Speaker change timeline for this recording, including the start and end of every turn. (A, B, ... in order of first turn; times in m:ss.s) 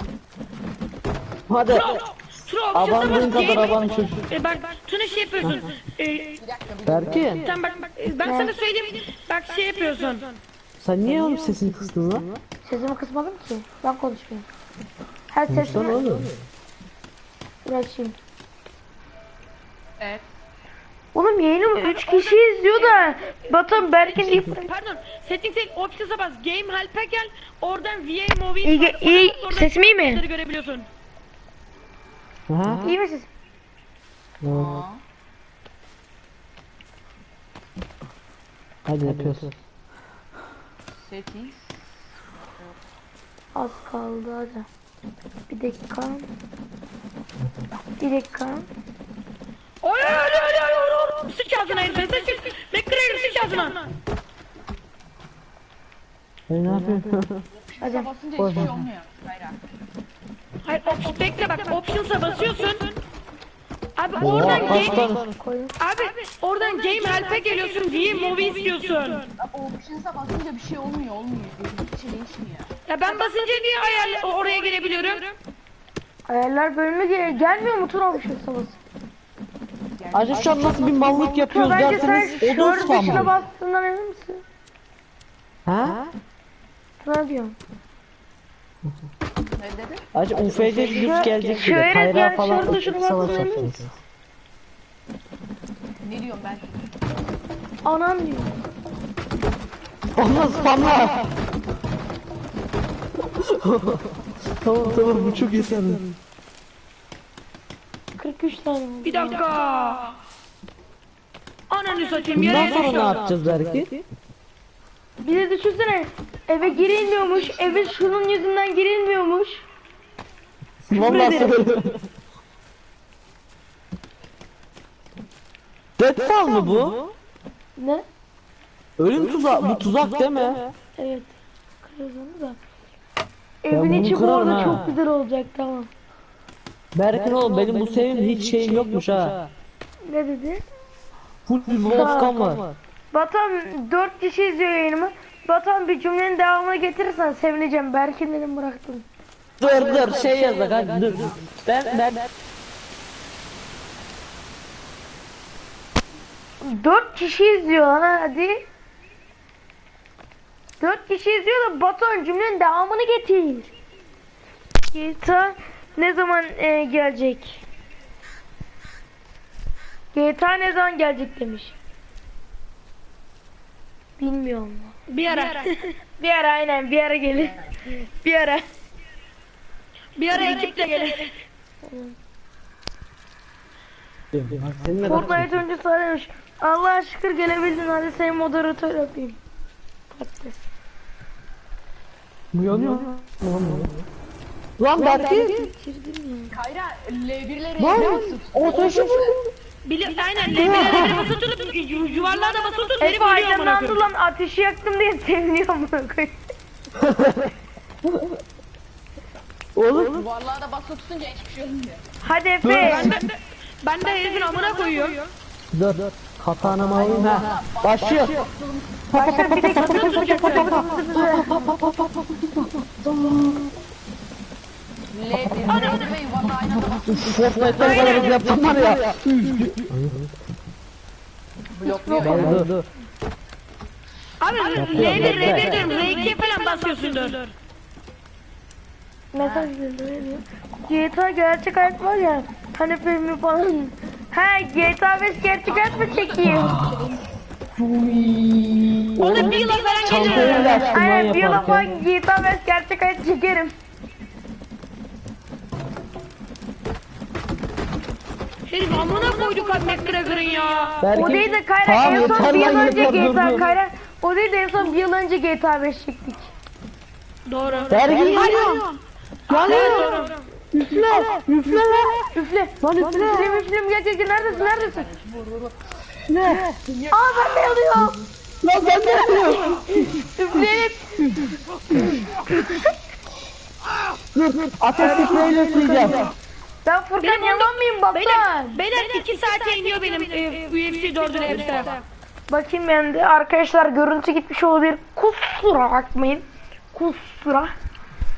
0:01.5-0:01.9 A
0:01.7-0:06.4 B
0:02.7-0:04.2 A
0:05.4-0:05.7 A
0:06.4-0:07.4 C
0:06.8-0:07.5 A
0:07.4-0:10.4 B
0:08.2-0:08.6 D
0:10.8-0:12.3 A
0:12.6-0:14.5 D
0:15.3-0:16.0 D
0:15.5-0:16.3 A
0:17.6-0:18.2 D
0:20.0-0:20.3 C
0:21.1-0:24.7 D
0:21.8-0:30.9 B
0:28.6-0:30.2 D
0:32.5-0:32.9 A
0:32.8-0:33.3 D
0:34.4-0:34.8 A
0:34.5-0:35.0 C
0:38.9-0:39.6 A
0:40.9-0:42.8 C
0:43.6-0:44.7 D
0:45.5-0:46.3 D
0:48.0-0:48.7 D
0:49.8-0:53.9 B
0:56.5-0:57.4 A
0:57.7-0:59.6 C
0:57.8-0:58.1 D
0:58.4-0:58.8 A
1:00.6-1:02.9 B
1:04.0-1:05.1 B
1:04.2-1:05.3 A
1:04.2-1:04.8 C
1:04.4-1:05.8 D
1:05.8-1:09.3 B
1:09.4-1:12.7 C
1:12.9-1:15.4 B
1:16.3-1:18.8 D
1:20.0-1:21.9 C
1:20.1-1:23.3 A
1:21.1-1:24.4 D
1:25.7-1:26.0 A
1:27.0-1:27.6 D
1:29.6-1:30.0 C
1:30.1-1:33.9 A
1:30.9-1:33.8 D
1:36.0-1:36.8 C
1:37.8-1:38.6 D
1:40.2-1:41.2 A
1:43.3-1:46.1 A
1:48.2-1:49.5 D
1:49.0-1:50.2 B
1:51.7-1:53.2 B
1:52.4-1:54.0 A
1:55.2-1:59.6 D
1:56.6-1:58.2 C
2:00.9-2:02.0 A
2:01.0-2:01.4 D
2:06.0-2:07.0 A
2:07.8-2:08.0 D
2:09.0-2:10.6 A
2:11.0-2:12.6 D
2:13.6-2:15.9 D
2:13.7-2:14.9 A
2:16.9-2:19.4 A
2:20.0-2:20.6 D
2:21.5-2:22.7 A
2:21.9-2:22.6 D
2:23.1-2:29.1 D
2:29.6-2:32.3 A
2:36.6-2:38.6 D
2:40.8-2:43.7 D
2:44.9-2:47.6 D
2:50.1-2:51.8 D
2:54.2-2:58.6 D
2:55.1-2:55.7 B
3:00.2-3:01.3 B
3:00.3-3:01.3 D
3:01.8-3:02.2 D
3:04.3-3:05.5 A
3:05.0-3:09.4 D
3:10.1-3:10.7 D
3:12.5-3:14.0 A
3:14.8-3:15.7 A
3:15.0-3:15.3 C
3:15.0-3:16.6 D
3:16.5-3:19.4 C
3:17.8-3:19.5 A
3:19.8-3:24.0 B
3:20.5-3:21.4 A
3:23.0-3:26.4 D
3:27.0-3:27.5 A
3:28.0-3:28.4 A
3:29.8-3:30.2 A
3:30.0-3:32.0 C
3:32.2-3:33.2 D
3:32.6-3:33.3 A
3:32.8-3:35.3 B
3:35.7-3:38.5 A
3:36.9-3:41.5 C
3:39.1-3:43.7 A
3:39.2-3:41.5 D
3:39.7-3:40.7 B
3:45.1-3:49.0 C
3:45.7-3:46.2 B
3:47.1-3:50.3 A
3:47.7-3:48.4 B
3:51.7-3:52.7 C
3:51.8-3:52.6 D
3:52.2-3:52.8 A
3:54.4-3:57.5 B
3:54.8-3:55.8 A
3:54.8-3:55.8 C
3:55.8-3:56.3 D
3:59.3-4:06.8 D
3:59.4-3:59.7 C
4:05.6-4:11.0 C
4:06.4-4:07.0 A
4:09.2-4:10.9 B
4:09.2-4:11.9 A
4:10.2-4:13.7 D
4:18.7-4:21.0 B
4:21.0-4:23.6 A
4:21.1-4:26.5 D
4:22.2-4:23.0 C
4:27.5-4:28.9 B
4:27.9-4:28.9 A
4:28.0-4:28.9 C
4:29.5-4:30.5 B
4:29.5-4:30.2 A
4:29.7-4:30.0 D
4:30.7-4:32.3 A
4:32.3-4:35.1 D
4:32.8-4:33.6 A
4:34.3-4:35.8 C
4:36.3-4:36.7 A
4:36.7-4:38.1 C
4:37.1-4:38.2 D
4:38.6-4:40.6 A
4:39.2-4:41.6 D
4:41.2-4:42.2 A
4:44.3-4:46.3 A
4:46.8-4:48.8 D
4:47.2-4:52.0 B
4:51.4-4:52.0 C
4:52.5-4:57.7 D